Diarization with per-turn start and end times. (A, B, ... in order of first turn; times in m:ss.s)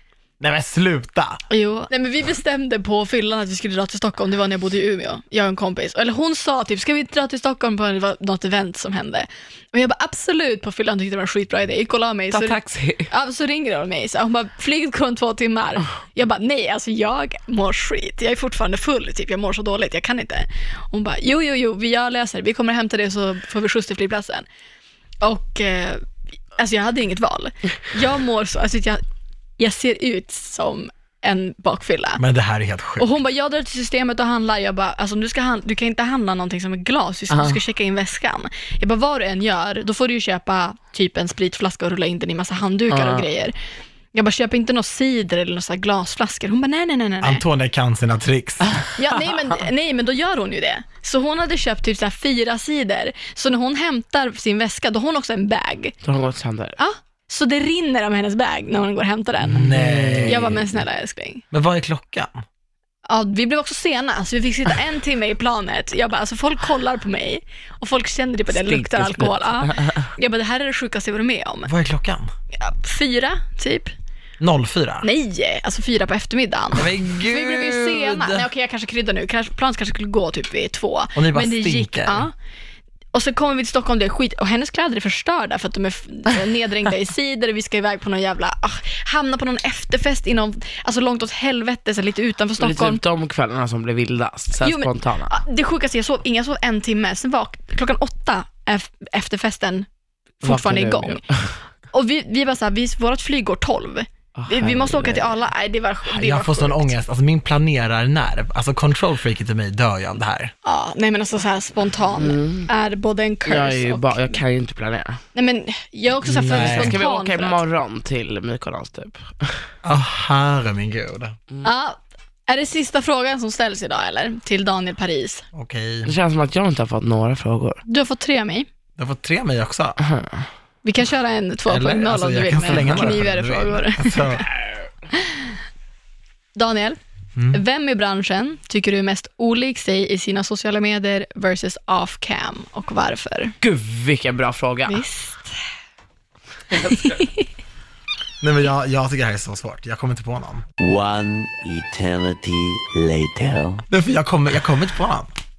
0:00.4-0:01.4 A
0:01.5-0:12.6 B
0:12.3-0:13.1 C
0:13.1-0:24.4 B
0:25.2-0:29.0 B
0:29.6-0:32.2 B
0:32.2-0:33.2 A
0:33.0-0:43.5 B
0:37.3-0:37.6 C
0:42.9-0:43.2 C
0:44.1-0:47.4 B
0:47.2-0:48.8 A
0:49.0-0:55.9 B
0:56.0-0:56.8 C
0:56.8-1:01.4 B
0:59.5-1:00.6 A
0:59.6-1:00.6 C
1:01.5-1:02.4 A
1:03.0-1:11.7 B
1:08.5-1:10.1 C
1:11.6-1:12.3 A
1:12.5-1:13.9 B
1:14.4-1:15.1 A
1:15.0-1:22.3 B
1:16.7-1:18.5 A
1:21.1-1:22.3 A
1:23.1-1:33.0 B
1:32.6-1:35.3 C
1:34.6-1:39.9 B
1:40.4-1:41.2 B
1:40.4-1:41.5 C
1:41.9-1:47.0 B
1:44.3-1:45.3 C
1:46.1-1:50.5 A
1:50.6-1:54.4 B
1:52.2-1:52.7 C
1:53.4-1:55.2 C
1:55.3-1:57.6 B
1:56.2-1:57.0 A
1:56.4-1:59.6 C
1:59.8-2:01.4 A
2:01.6-2:05.4 B
2:05.5-2:06.1 A
2:06.0-2:07.8 C
2:07.9-2:08.7 B
2:09.0-2:10.0 A
2:10.0-2:10.4 C
2:10.8-2:14.4 B
2:11.7-2:14.4 A
2:12.7-2:13.1 C
2:15.1-2:15.5 B
2:16.5-2:17.0 B
2:17.4-2:17.6 A
2:17.5-2:23.5 B
2:23.6-2:25.0 C
2:24.9-2:25.6 B
2:26.7-2:27.3 C
2:26.7-2:27.4 B
2:28.4-2:30.6 A
2:30.8-2:33.8 D
2:33.9-2:35.3 A